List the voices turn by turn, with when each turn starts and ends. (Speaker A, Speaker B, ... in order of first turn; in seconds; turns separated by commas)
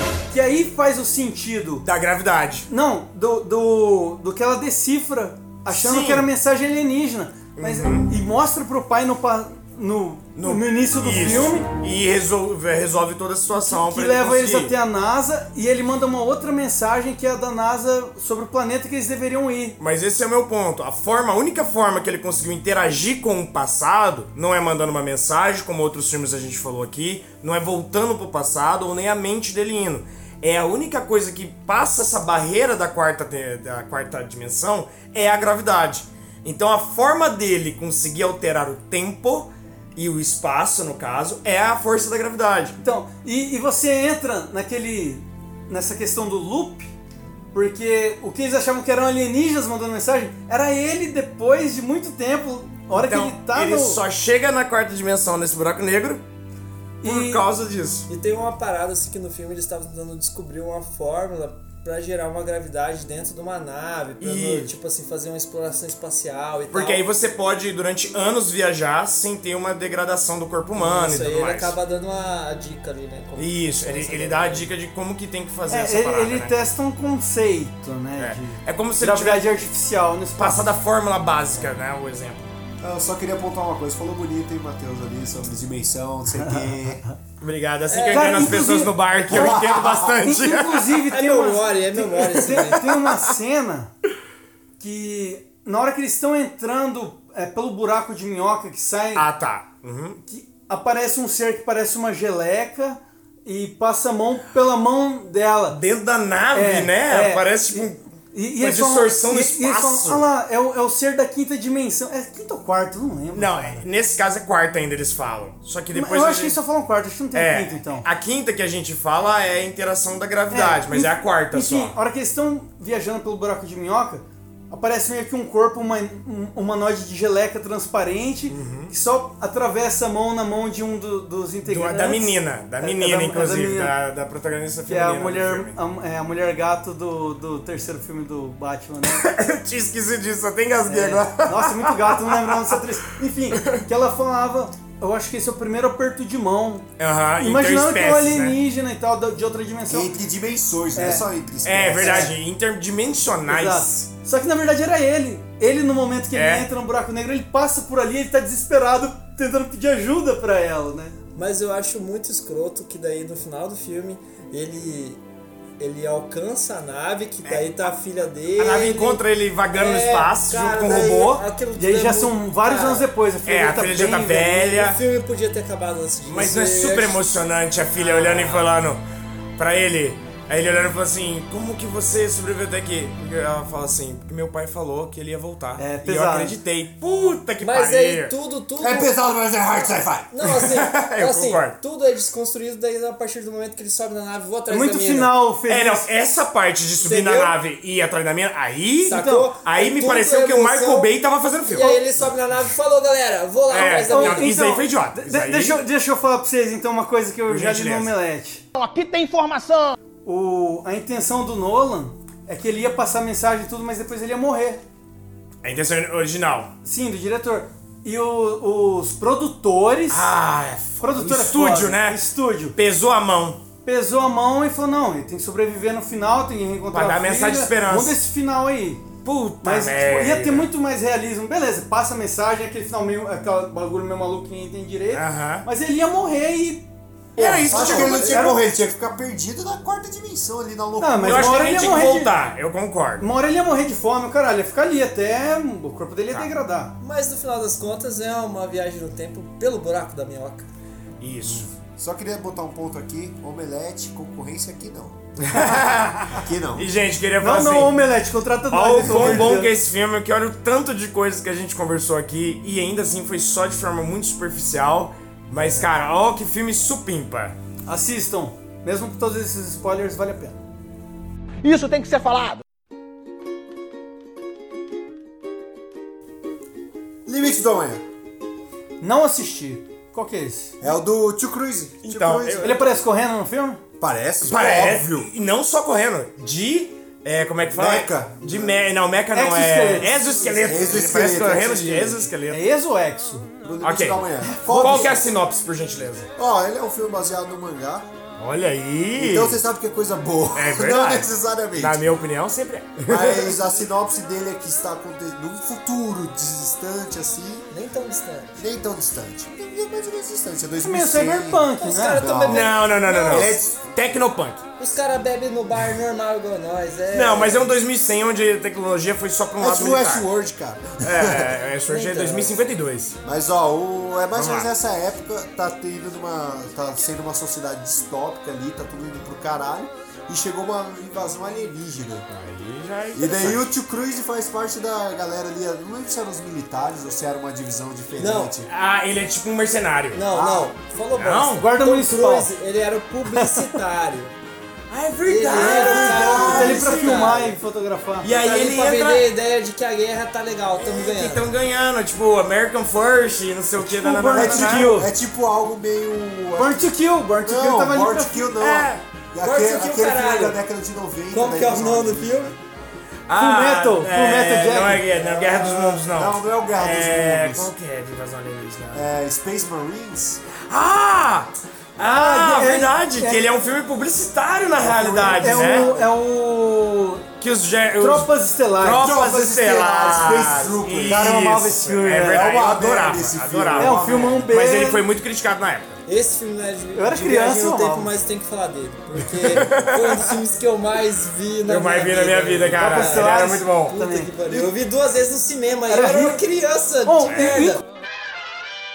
Speaker A: 0.3-1.8, Speaker B: 1.8-2.7, Speaker A: 2.7-11.7, Speaker B: 5.7-6.3, Speaker B: 7.6-8.1, Speaker B: 10.4-14.7, Speaker A: 13.5-19.8, Speaker B: 19.8-42.8, Speaker A: 42.8-46.9, Speaker A: 47.5-54.0, Speaker B: 52.9-56.2, Speaker A: 57.0-57.4, Speaker B: 57.0-58.1, Speaker C: 58.1-67.0, Speaker B: 64.2-64.7, Speaker B: 66.7-71.8, Speaker C: 70.8-74.7, Speaker B: 73.4-76.5, Speaker A: 75.7-80.7, Speaker B: 78.2-79.5, Speaker B: 80.4-82.5, Speaker D: 82.8-87.0, Speaker B: 87.4-91.0, Speaker C: 87.9-88.4, Speaker A: 88.1-93.9, Speaker D: 89.3-90.2, Speaker C: 91.1-92.8, Speaker B: 92.5-93.1, Speaker A: 94.8-99.2, Speaker B: 99.2-100.2, Speaker A: 100.3-105.8, Speaker B: 105.7-108.0, Speaker A: 106.5-113.8, Speaker B: 108.6-110.3, Speaker B: 113.3-116.6, Speaker A: 115.9-118.0, Speaker B: 117.3-122.0, Speaker A: 120.5-133.9, Speaker B: 128.5-128.9, Speaker B: 131.7-135.8, Speaker A: 134.9-139.2, Speaker B: 139.1-142.8, Speaker A: 140.9-146.9, Speaker B: 147.0-148.6, Speaker A: 147.4-150.1, Speaker D: 149.9-152.3, Speaker A: 151.0-151.2, Speaker B: 151.6-153.9, Speaker A: 152.0-152.3, Speaker A: 153.5-161.2, Speaker B: 156.3-156.7, Speaker C: 161.3-165.2, Speaker C: 165.8-169.2, Speaker B: 168.6-171.4, Speaker C: 169.7-173.1, Speaker A: 171.8-174.8, Speaker B: 173.5-175.0, Speaker C: 174.7-177.2, Speaker B: 176.3-179.0, Speaker C: 178.1-178.6, Speaker B: 179.6-188.3, Speaker A: 185.8-186.5, Speaker C: 187.6-189.2, Speaker D: 188.8-190.3, Speaker C: 190.3-195.3, Speaker B: 190.4-191.8, Speaker A: 194.7-196.1, Speaker B: 195.7-202.0, Speaker C: 197.0-197.6, Speaker C: 199.1-201.1, Speaker A: 199.1-199.5, Speaker C: 201.7-204.5, Speaker B: 203.7-205.8, Speaker A: 203.8-208.6, Speaker B: 207.5-208.1, Speaker E: 208.8-209.9, Speaker A: 210.2-214.8, Speaker B: 215.6-216.7, Speaker A: 216.8-220.3, Speaker B: 220.1-222.2, Speaker A: 221.0-222.8, Speaker B: 222.8-223.6, Speaker A: 223.8-229.1, Speaker B: 226.9-228.2, Speaker B: 229.2-230.7, Speaker A: 229.6-238.6, Speaker B: 235.1-235.7, Speaker B: 237.4-238.5, Speaker D: 237.4-241.8, Speaker A: 241.0-242.3, Speaker B: 241.2-243.2, Speaker A: 243.2-246.9, Speaker C: 247.0-250.7, Speaker B: 251.2-251.7, Speaker D: 251.4-255.2, Speaker B: 255.4-258.0, Speaker D: 256.3-256.9, Speaker A: 257.4-259.7, Speaker B: 258.7-267.6, Speaker D: 259.0-259.5, Speaker A: 265.6-265.9, Speaker A: 267.9-270.6, Speaker E: 271.6-272.6, Speaker D: 277.3-278.0, Speaker A: 279.0-280.8, Speaker D: 280.8-282.8, Speaker B: 282.0-282.8, Speaker A: 282.6-283.8, Speaker D: 284.0-285.3, Speaker B: 284.4-292.6, Speaker D: 287.7-288.9, Speaker A: 289.3-290.9, Speaker D: 290.6-292.3, Speaker A: 292.5-293.5, Speaker D: 293.6-295.2, Speaker B: 293.8-296.3, Speaker A: 294.6-295.1, Speaker D: 296.4-298.1, Speaker B: 298.4-299.6, Speaker D: 299.2-302.1, Speaker B: 300.6-303.6, Speaker D: 303.1-307.7, Speaker C: 307.7-308.6, Speaker D: 308.6-313.9, Speaker A: 310.8-312.3, Speaker C: 311.8-313.6, Speaker B: 312.5-314.6, Speaker C: 314.8-317.7, Speaker B: 317.1-320.3, Speaker D: 319.6-321.6, Speaker B: 321.0-323.2, Speaker C: 321.9-322.6, Speaker D: 323.2-332.3, Speaker B: 324.4-324.7, Speaker B: 332.3-333.7, Speaker D: 333.1-338.7, Speaker C: 338.2-338.5, Speaker B: 338.7-340.2, Speaker C: 340.1-344.3, Speaker D: 340.3-340.7, Speaker B: 341.1-341.7, Speaker A: 341.6-342.5, Speaker A: 343.3-343.7, Speaker B: 344.9-347.4, Speaker C: 345.2-347.6, Speaker D: 345.5-347.0, Speaker A: 346.2-348.3, Speaker B: 348.2-349.2, Speaker C: 348.2-351.4, Speaker B: 350.8-355.0, Speaker A: 353.8-355.1, Speaker D: 354.3-362.6, Speaker A: 356.6-358.5, Speaker B: 358.6-359.0, Speaker C: 359.4-360.6, Speaker C: 361.3-362.5, Speaker B: 363.3-369.1, Speaker A: 363.4-365.1, Speaker D: 365.3-367.7, Speaker D: 368.9-370.4, Speaker B: 370.6-376.0, Speaker A: 372.0-373.5, Speaker D: 374.8-376.1, Speaker A: 375.0-377.3, Speaker B: 377.4-386.0, Speaker A: 378.0-379.4, Speaker D: 378.9-384.5, Speaker A: 381.1-382.4, Speaker A: 383.8-385.0, Speaker C: 386.1-397.8, Speaker A: 386.9-388.1, Speaker B: 389.3-390.3, Speaker B: 391.7-393.9, Speaker A: 392.8-394.7, Speaker A: 395.9-396.4, Speaker A: 397.1-397.8